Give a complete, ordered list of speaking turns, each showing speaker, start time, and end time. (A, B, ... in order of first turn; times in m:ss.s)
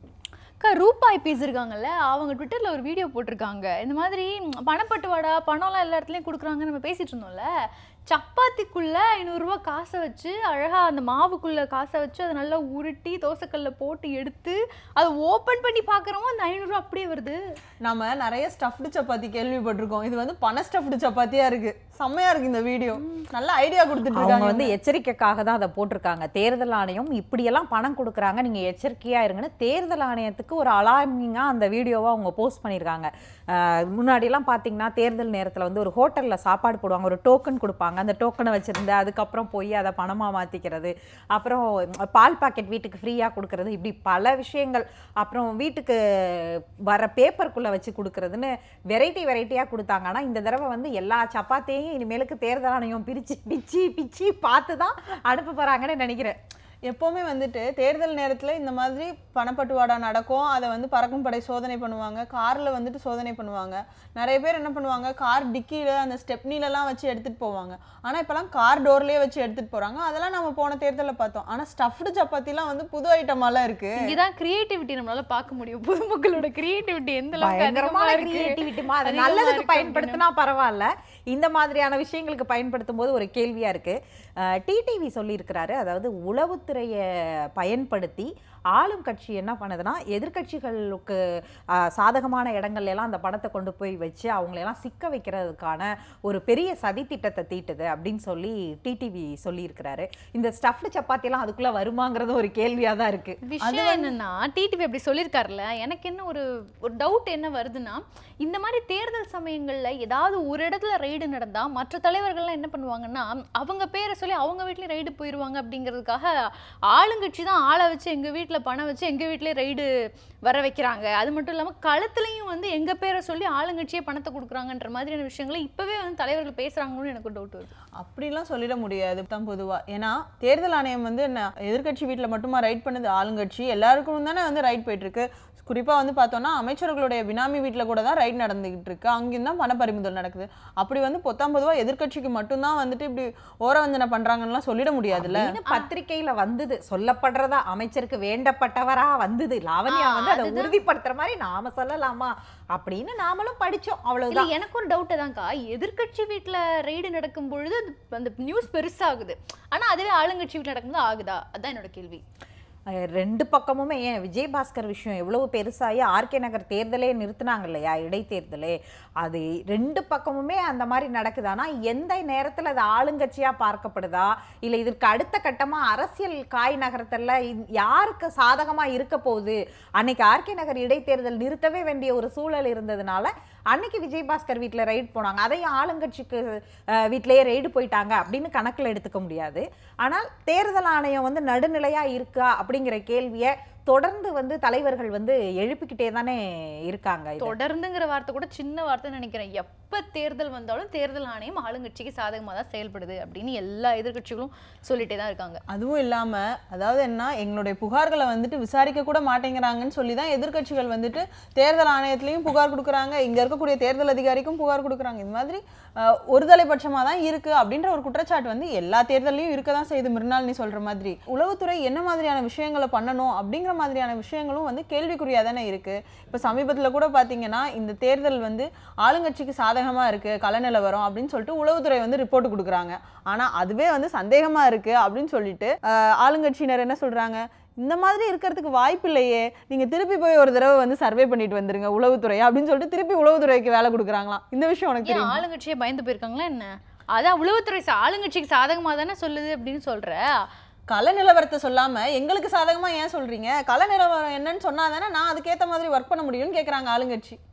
0:00.6-0:07.5 A
0:08.1-0:17.4 A
0:17.8-0:24.7 B
0:24.1-0:56.4 C
0:56.9-1:14.1 B
1:14.0-1:20.2 A
1:17.4-1:31.2 C
1:31.7-1:43.4 C
1:43.4-1:56.3 A
1:43.7-1:44.1 B
1:56.9-1:59.9 A
2:00.5-2:07.8 A
2:08.0-2:25.6 B
2:25.1-2:34.5 C
2:29.9-2:30.7 A
2:34.3-2:42.2 A
2:42.9-3:17.6 C
3:17.4-3:25.6 A
3:25.7-4:05.4 B
4:05.0-4:10.5 A
4:10.9-4:17.4 B